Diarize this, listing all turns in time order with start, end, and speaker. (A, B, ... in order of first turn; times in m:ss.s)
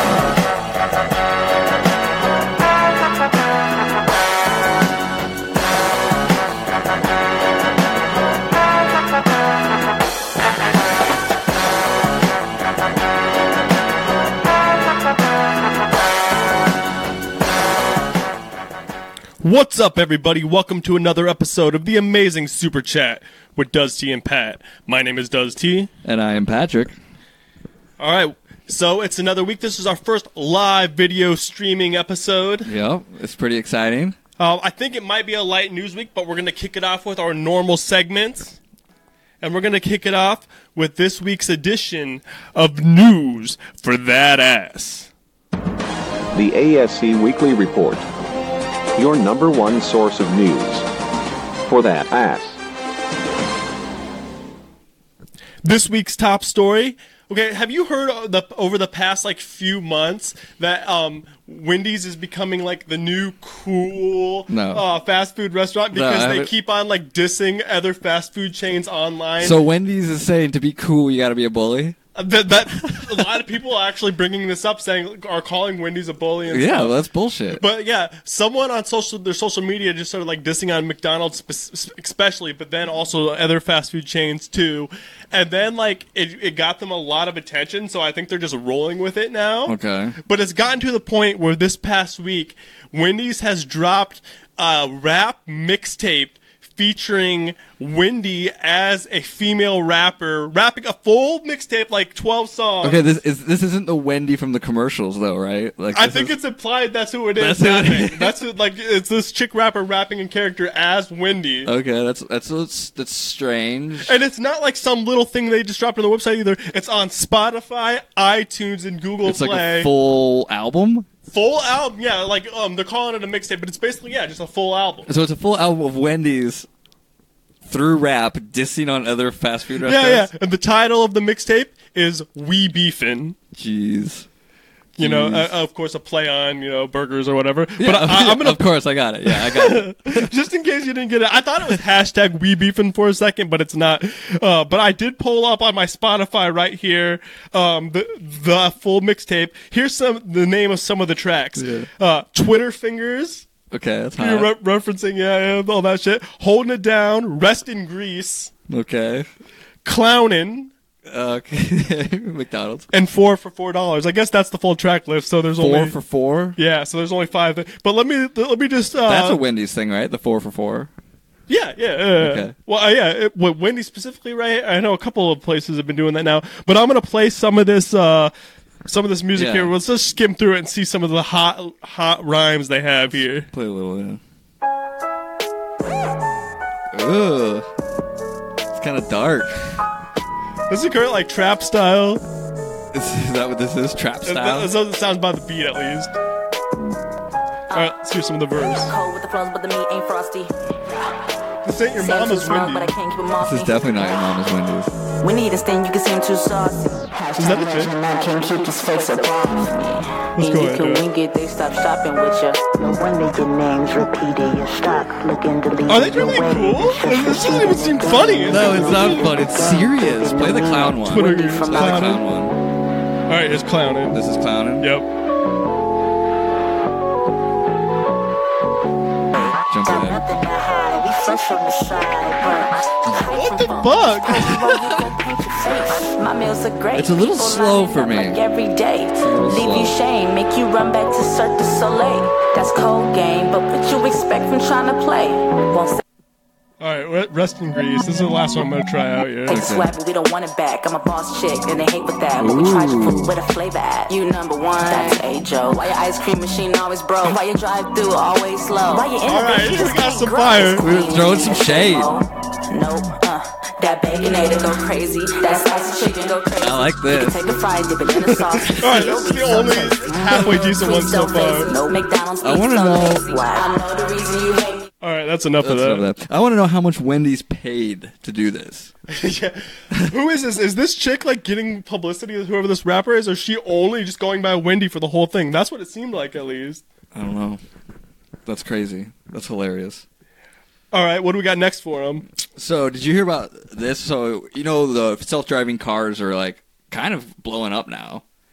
0:19.4-0:25.9 A
0:26.0-0:27.0 B
0:28.0-0:32.7 A
0:32.6-0:34.2 B
0:34.4-0:38.6 A
0:39.4-0:45.1 A
0:46.3-0:48.1 C
0:49.0-0:50.9 C
0:51.7-0:52.6 C
0:55.6-1:09.6 A
1:04.5-1:04.9 B
1:05.9-1:06.5 B
1:09.4-1:12.0 B
1:12.2-1:17.0 A
1:12.8-1:13.2 B
1:16.5-1:17.6 B
1:17.5-1:43.0 A
1:29.7-1:30.2 B
1:42.8-1:46.4 B
1:45.9-1:51.7 A
1:47.4-1:48.4 B
1:51.6-1:54.1 B
1:54.0-1:59.9 A
1:59.2-2:01.1 B
2:01.3-2:05.1 A
2:05.1-2:06.7 B
2:07.6-2:10.3 B
2:09.8-2:13.4 A
2:13.5-2:14.3 B
2:15.0-2:18.6 A
2:15.0-2:15.5 B
2:17.8-2:20.3 B
2:19.2-2:33.5 A
2:31.6-2:31.9 B
2:33.7-2:34.5 B
2:34.2-2:38.5 A
2:38.7-2:39.3 B
2:39.8-2:40.7 A
2:41.1-2:42.9 B
2:42.9-2:46.0 A
2:45.6-2:46.6 B
2:46.6-2:49.4 A
2:49.0-2:50.9 B
2:51.5-2:58.3 A
2:52.2-2:52.6 B
2:58.9-3:03.5 A
2:59.4-2:59.7 B
3:03.5-3:04.2 B
3:06.9-3:07.7 B
3:08.7-3:09.8 B
3:10.7-3:12.2 A
3:12.9-3:14.7 B
3:14.3-3:16.1 A
3:17.7-3:18.9 A
3:18.9-3:20.5 D
3:21.6-3:22.9 A
3:22.0-3:24.4 D
3:23.4-3:24.9 B
3:25.2-3:27.1 D
3:27.2-3:29.8 E
3:27.4-3:27.9 A
3:28.1-3:32.7 D
3:30.4-3:31.1 A
3:32.8-3:42.2 E
3:35.9-3:39.3 A
3:38.5-3:42.6 B
3:41.1-3:42.2 A
3:43.3-3:44.2 A
3:44.1-3:44.9 B
3:44.8-3:45.1 A
3:49.4-3:56.1 E
3:49.7-3:50.2 B
3:53.1-3:53.3 B
3:53.2-3:54.5 A
3:54.4-3:55.0 B
3:55.7-4:06.0 D
3:56.9-3:58.4 B
3:59.2-3:59.9 B
4:06.8-4:09.6 A
4:09.5-4:34.9 D
4:09.5-4:09.9 B
4:12.4-4:13.3 B
4:14.9-4:15.1 E
4:18.9-4:19.6 E
4:19.3-4:20.8 A
4:20.8-4:22.2 B
4:26.6-4:27.4 B
4:28.7-4:31.7 A
4:29.3-4:30.0 E
4:32.4-4:33.3 B
4:35.0-4:36.0 A
4:35.6-4:38.9 B
4:39.1-4:46.8 A
4:47.1-4:47.6 B
4:48.5-4:50.0 B
4:50.9-4:52.3 A
4:52.6-4:58.2 B